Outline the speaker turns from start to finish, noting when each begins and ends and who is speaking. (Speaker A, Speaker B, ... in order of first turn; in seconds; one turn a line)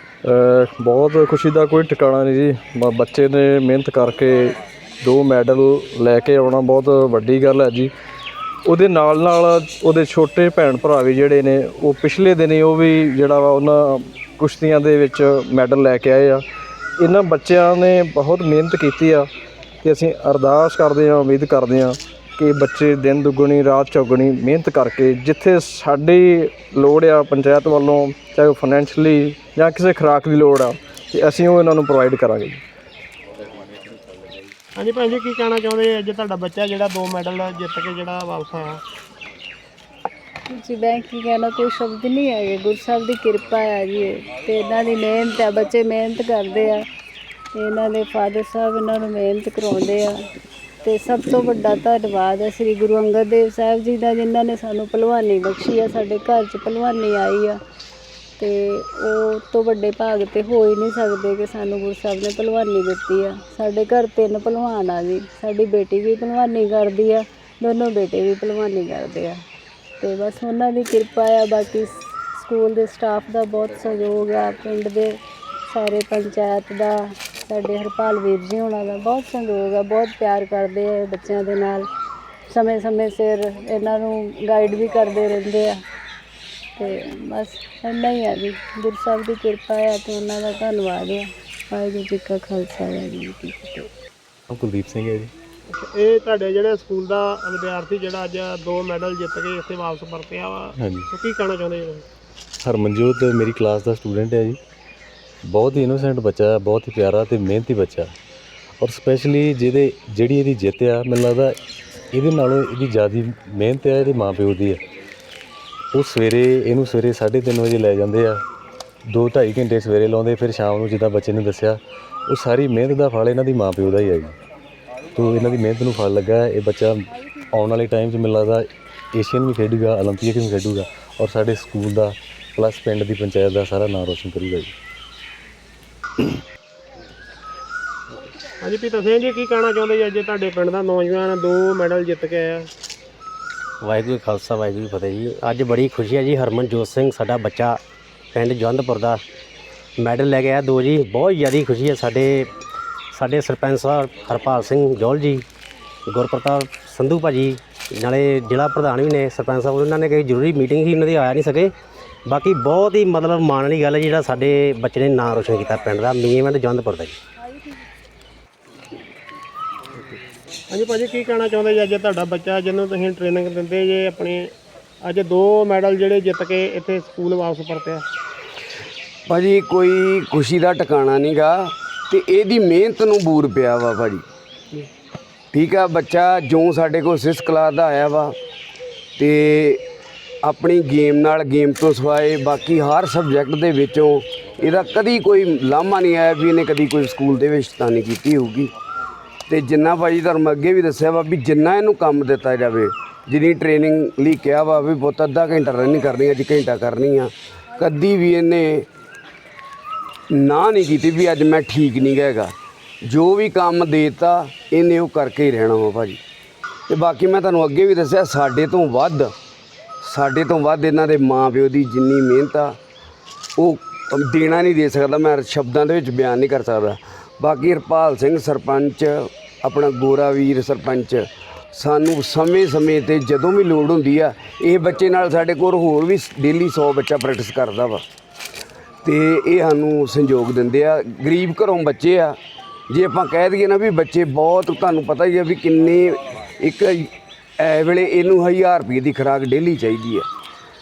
Speaker A: 0.2-7.9
Speaker A: 8.6-16.4
Speaker A: 17.0-19.3
Speaker A: 19.8-32.6
Speaker B: 34.8-38.8
Speaker C: 40.5-46.8
Speaker C: 47.5-50.2
Speaker C: 50.8-57.6
Speaker C: 58.4-69.4
Speaker C: 70.0-75.2
Speaker C: 75.7-81.9
Speaker C: 82.5-85.8
Speaker C: 86.8-93.9
Speaker D: 94.5-95.3
Speaker B: 95.7-102.0
Speaker D: 100.8-101.1
Speaker D: 102.6-104.6
Speaker D: 105.4-108.1
Speaker D: 108.8-111.5
Speaker D: 112.1-114.8
Speaker D: 115.9-118.4
Speaker D: 119.1-124.4
Speaker D: 125.1-134.7
Speaker B: 138.6-142.7
Speaker E: 143.8-147.8
Speaker E: 148.3-149.2
Speaker E: 150.0-152.5
Speaker E: 153.1-155.4
Speaker E: 156.1-161.7
Speaker E: 162.3-167.2
Speaker B: 170.7-174.5
Speaker B: 175.0-178.0
Speaker F: 179.3-184.2
Speaker F: 185.5-188.3
Speaker F: 189.2-189.8
Speaker F: 190.4-198.7
Speaker F: 199.5-208.8
Speaker F: 210.3-212.5
Speaker F: 213.0-216.2
Speaker F: 216.9-219.3
Speaker F: 220.0-222.8
Speaker F: 223.6-238.0
Speaker F: 239.0-242.4
Speaker F: 242.9-250.3